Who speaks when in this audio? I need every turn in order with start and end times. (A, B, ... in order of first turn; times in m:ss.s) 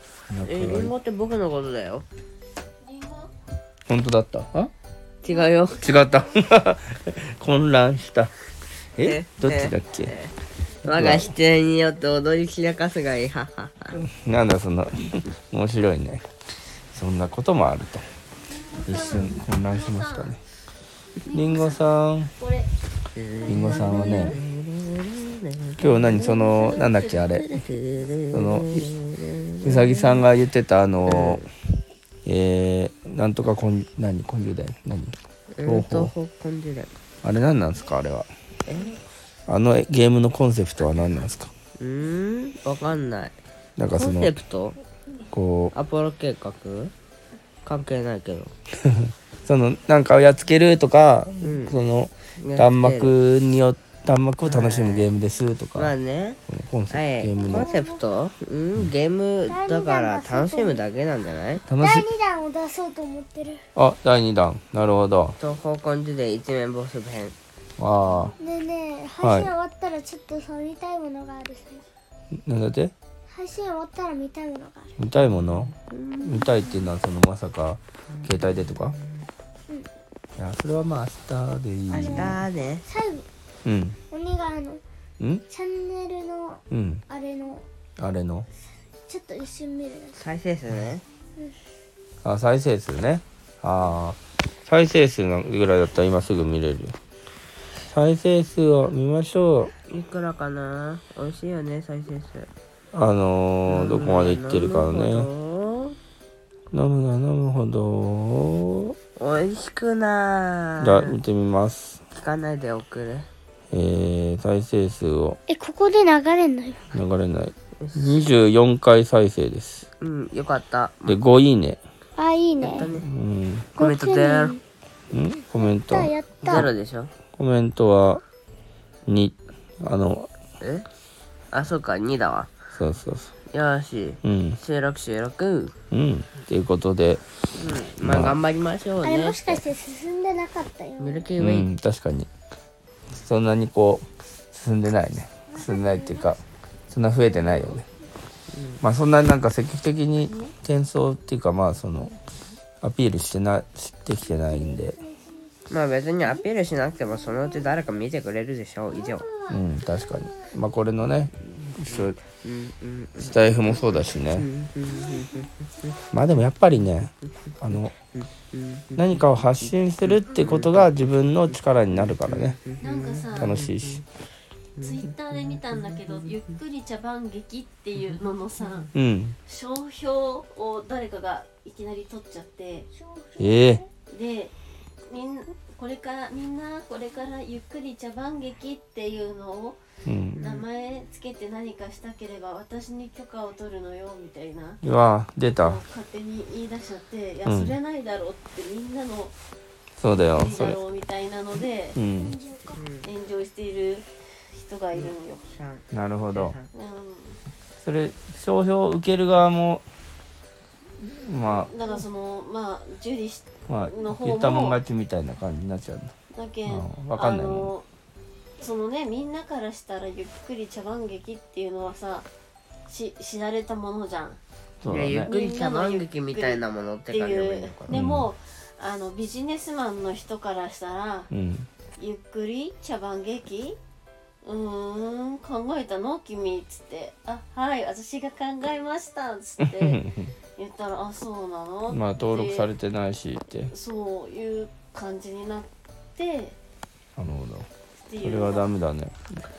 0:00.3-0:00.9 A
0:00.4-0:02.0 B
0:02.8-0:03.3 C
0:03.9-0:04.7 A
0:05.2-0:05.9 B
0:05.7-0:08.3 A
0:05.9-0:06.2 C
0:08.9-0:10.1 A
0:09.0-0:10.3 B
0:10.8-0:11.3 A
0:10.9-0:14.0 B
0:13.9-0:16.2 A
0:16.9-0:18.0 A
0:18.4-0:20.4 C
0:18.8-0:20.4 A
0:21.2-0:22.7 C
0:21.3-0:22.3 A
0:23.1-0:26.3 B
0:23.4-0:24.4 A
0:23.5-0:24.3 C
0:25.8-0:27.6 A
0:26.2-0:27.4 C
0:27.3-0:30.3 B
0:28.3-0:28.9 A
0:29.6-0:31.5 A
0:31.0-0:31.5 B
0:32.2-0:36.1 A
0:35.5-0:36.9 B
0:37.2-0:38.3 A
0:38.6-0:39.0 B
0:39.5-0:41.5 A
0:41.8-0:43.3 B
0:43.8-0:44.3 A
0:43.9-0:44.8 B
0:45.3-0:45.7 A
0:45.7-0:46.9 B
0:47.6-0:48.5 B
0:48.9-0:55.9 A
0:51.4-0:51.8 B
0:52.4-0:53.1 B
0:54.4-0:55.1 B
0:55.8-0:56.4 B
0:56.5-0:57.7 A
0:56.9-1:01.6 B
0:57.4-0:58.0 D
0:59.4-1:00.9 D
1:01.7-1:02.1 A
1:01.7-1:03.6 D
1:03.8-1:05.4 A
1:05.4-1:07.3 B
1:07.8-1:08.3 A
1:08.4-1:11.8 D
1:09.2-1:09.5 A
1:12.3-1:12.9 A
1:13.3-1:15.0 D
1:15.0-1:15.7 A
1:15.7-1:16.4 B
1:16.2-1:19.0 A
1:18.1-1:19.2 B
1:20.4-1:22.4 A
1:21.9-1:22.8 B
1:21.9-1:23.2 D
1:23.6-1:23.9 A
1:24.1-1:24.8 D
1:25.5-1:27.6 D
1:26.7-1:27.0 A
1:28.0-1:28.4 A
1:29.1-1:30.2 D
1:30.1-1:31.0 B
1:32.2-1:36.9 A
1:37.8-1:39.7 A
1:39.9-1:42.5 B
1:42.9-1:45.3 A
1:43.6-1:46.0 B
1:46.7-1:48.9 A
1:49.2-1:51.2 B
1:50.8-1:52.0 A
1:52.1-1:53.3 B
1:53.7-1:55.4 A
1:55.5-1:56.9 D
1:56.9-1:59.8 A
1:57.8-1:58.3 B
2:00.0-2:01.2 B
2:01.0-2:01.8 A
2:02.2-2:02.9 D
2:02.6-2:03.1 B
2:03.0-2:03.7 A
2:03.8-2:04.6 B
2:03.8-2:04.6 D
2:05.1-2:06.1 A
2:05.5-2:06.7 D
2:06.4-2:07.1 B
2:07.4-2:08.2 A
2:09.1-2:10.3 A
2:10.6-2:10.8 B
2:11.5-2:12.5 B
2:12.7-2:13.3 A
2:13.5-2:15.7 B
2:14.2-2:14.6 A
2:15.9-2:17.2 A
2:17.5-2:19.6 B
2:18.0-2:18.4 A
2:19.0-2:21.3 D
2:21.0-2:21.7 B
2:21.4-2:22.3 A
2:23.2-2:27.8 A
2:25.5-2:26.3 D
2:27.3-2:27.8 D
2:28.5-2:28.8 B
2:28.8-2:32.1 A
2:30.3-2:30.5 C
2:32.8-2:35.0 A
2:34.5-2:35.5 D
2:35.7-2:39.3 B
2:38.9-2:39.6 D
2:39.5-2:42.2 A
2:40.1-2:40.5 D
2:41.5-2:46.0 B
2:43.2-2:44.4 A
2:46.1-2:47.9 A
2:48.1-2:50.9 B
2:49.0-2:52.6 A
2:51.5-2:54.0 B
2:52.8-2:53.6 C
2:53.4-2:54.0 A
2:54.8-2:55.1 B
2:54.8-2:58.9 C
2:55.9-2:56.3 B
2:58.9-2:59.4 A
2:59.4-3:02.9 C
3:03.0-3:03.9 D
3:03.4-3:03.8 A
3:04.1-3:04.5 C
3:05.0-3:09.8 C
3:10.0-3:10.4 A
3:10.3-3:10.6 B
3:10.4-3:14.8 C
3:14.8-3:15.8 A
3:15.5-3:19.3 C
3:17.4-3:17.8 A
3:20.0-3:20.8 A
3:20.3-3:22.0 C
3:22.0-3:22.4 A
3:22.2-3:22.8 D
3:22.7-3:23.1 B
3:23.0-3:25.4 C
3:24.9-3:26.7 B
3:25.9-3:26.6 A
3:26.7-3:27.4 C
3:27.8-3:29.8 A
3:31.0-3:31.7 A
3:31.4-3:34.8 C
3:33.7-3:36.1 A
3:36.3-3:37.9 C
3:36.6-3:37.7 A
3:38.6-3:42.3 C
3:42.9-3:44.4 C
3:44.8-3:45.3 A
3:44.9-3:48.0 B
3:45.2-3:51.3 C
3:47.9-3:48.3 A
3:51.3-3:51.7 A
3:52.0-3:53.8 C
3:54.4-4:00.0 C
3:59.6-4:00.3 A
4:00.6-4:02.7 C
4:01.9-4:03.7 A
4:03.7-4:06.6 C
4:07.2-4:07.7 A
4:07.9-4:08.7 C
4:08.2-4:09.2 A